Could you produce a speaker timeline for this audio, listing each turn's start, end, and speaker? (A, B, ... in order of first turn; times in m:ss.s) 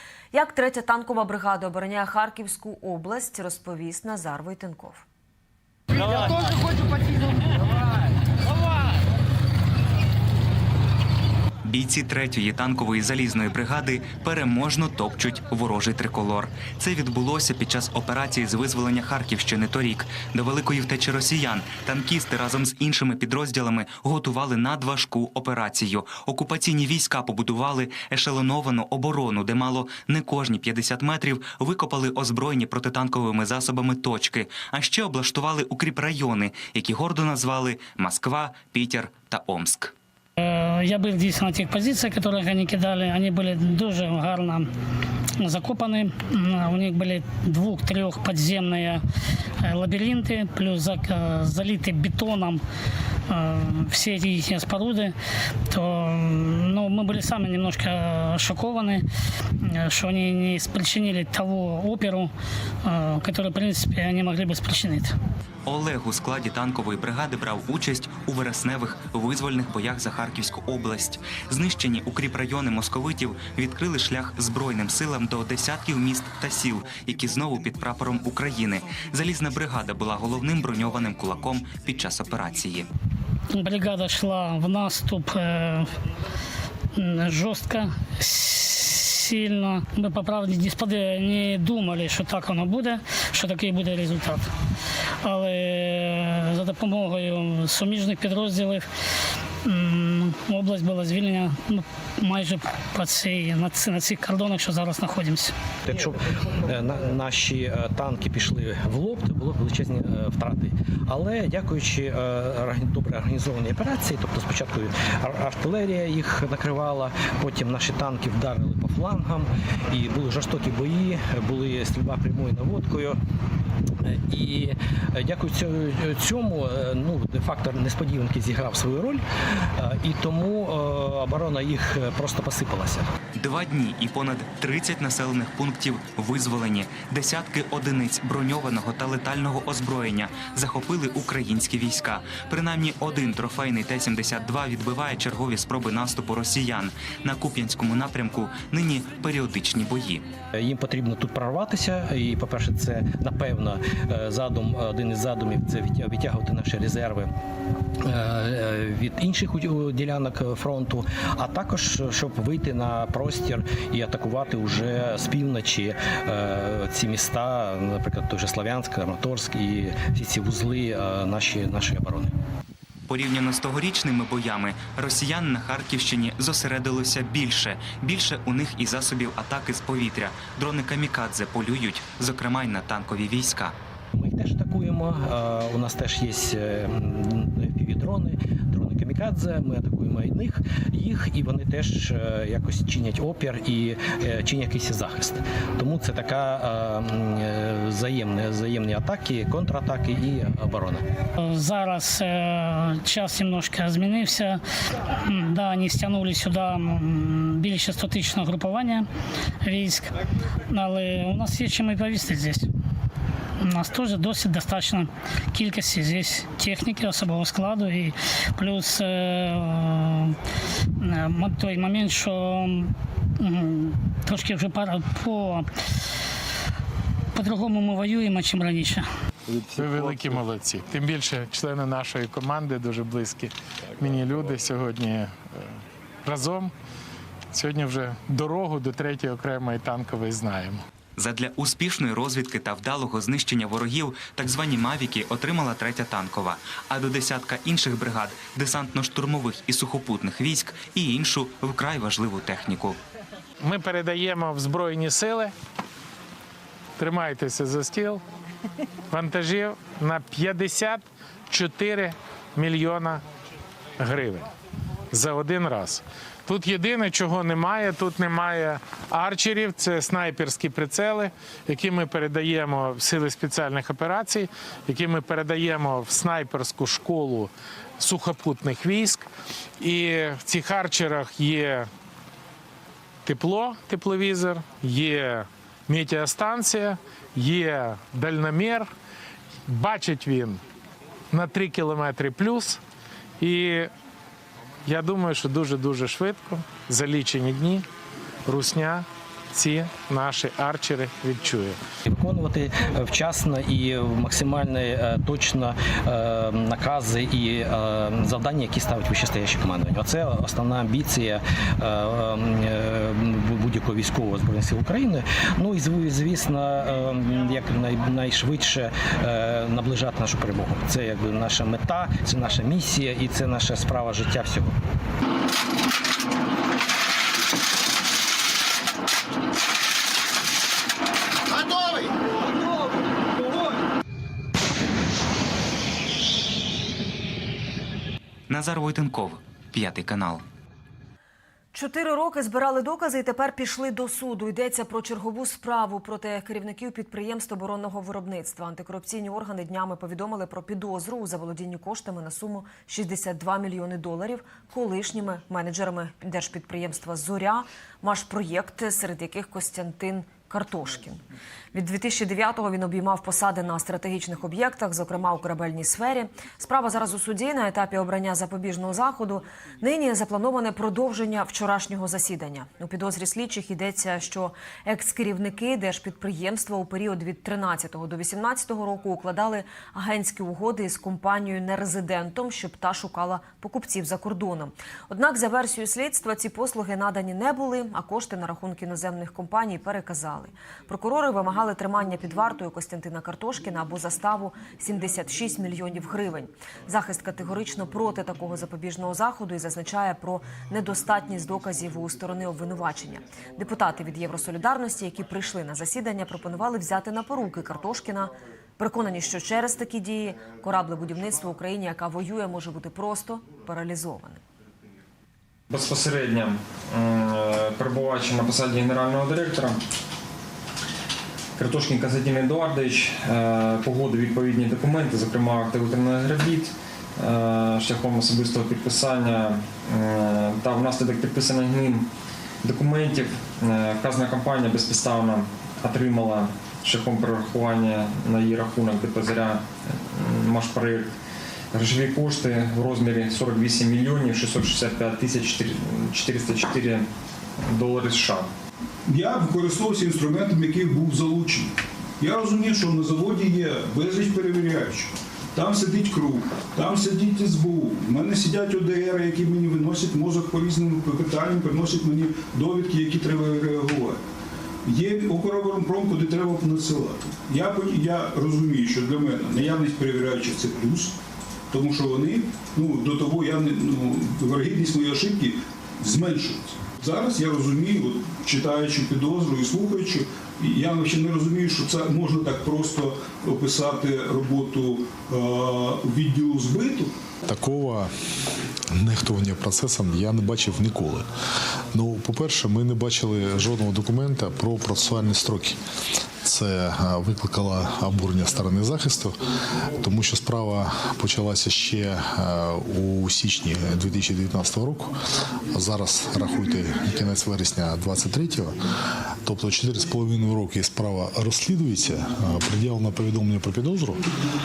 0:00.3-0:05.0 A
0:11.6-0:39.9 B
0:40.4-0:44.7 C
0:45.4-0:49.0 C
0:49.6-0:52.6 C
0:53.3-0:55.1 C
0:55.7-0:59.0 C
0:59.6-1:02.3 C
1:02.8-1:05.1 C
1:05.6-1:22.9 B
1:23.5-1:25.9 C
1:26.9-1:34.5 C
1:35.2-1:38.9 C
1:39.6-1:45.5 C
1:45.8-2:03.2 D
2:04.0-2:13.1 D
2:13.4-2:30.3 B
2:30.5-2:37.3 D
2:38.0-2:52.4 D
2:53.1-3:03.7 B
3:04.1-3:21.0 D
3:21.4-3:29.1 C
3:29.6-3:30.1 C
3:30.7-3:32.7 C
3:33.6-3:40.4 C
3:41.0-3:45.7 C
3:47.3-3:49.1 C
3:49.6-3:55.7 E
3:56.2-3:56.7 E
3:57.5-4:00.8 E
4:01.2-4:13.0 B
4:13.6-4:15.5 E
4:17.0-4:18.2 E
4:19.1-4:23.2 E
4:24.0-4:24.4 E
4:25.1-4:39.3 E
4:39.8-4:41.9 E
4:43.2-4:48.9 E
4:49.7-4:50.6 E
4:51.3-4:52.8 E
4:53.4-4:53.9 E
4:54.8-4:57.8 E
4:58.4-5:01.8 E
5:02.1-5:24.8 D
5:38.5-5:40.4 B
5:41.7-6:01.2 A
6:01.7-6:54.4 A
6:55.7-6:59.8 F
7:01.6-7:12.1 F
7:12.6-7:21.1 F
7:21.7-7:27.0 F
7:27.6-7:28.5 F
7:29.1-7:44.2 G
7:44.8-7:51.1 G
7:51.7-8:07.1 G
8:07.4-8:08.1 H
8:08.9-8:11.3 H
8:11.9-8:15.8 H
8:16.4-8:19.3 H
8:19.9-8:25.1 H
8:25.7-8:28.8 H
8:29.4-8:34.2 H